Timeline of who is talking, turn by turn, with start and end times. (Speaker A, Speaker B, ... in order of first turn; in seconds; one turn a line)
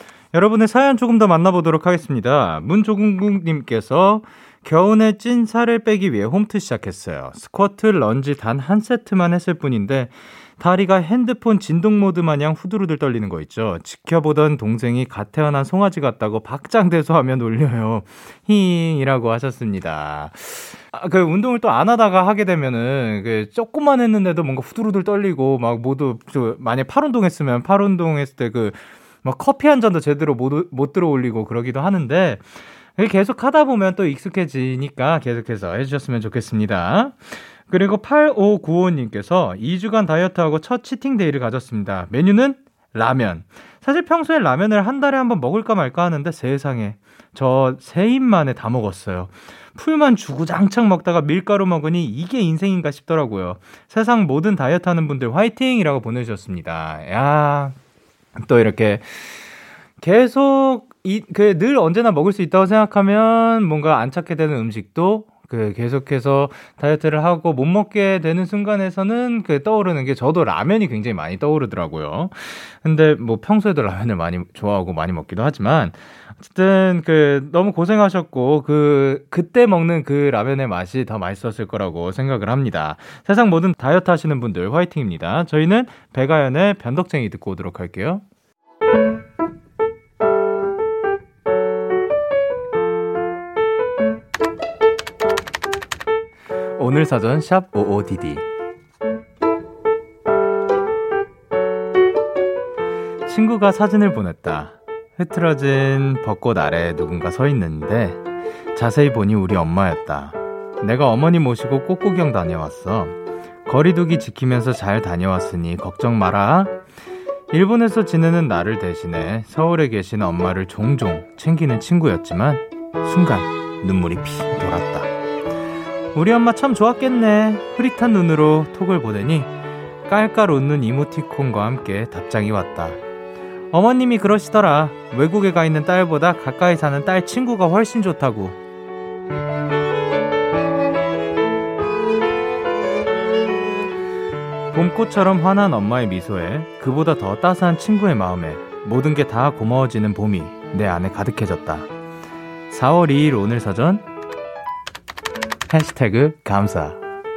Speaker A: 0.3-57.8
Speaker A: 58.4-59.3
Speaker A: 60.0-88.2
Speaker A: 96.8-98.5
Speaker A: 103.2-108.2
Speaker A: 108.7-116.8
Speaker A: 117.5-125.1
Speaker A: 126.2-129.5
Speaker A: 130.1-133.0
Speaker A: 133.7-138.6
Speaker A: 144.7-151.9
Speaker A: 152.7-154.1
Speaker A: 155.7-157.0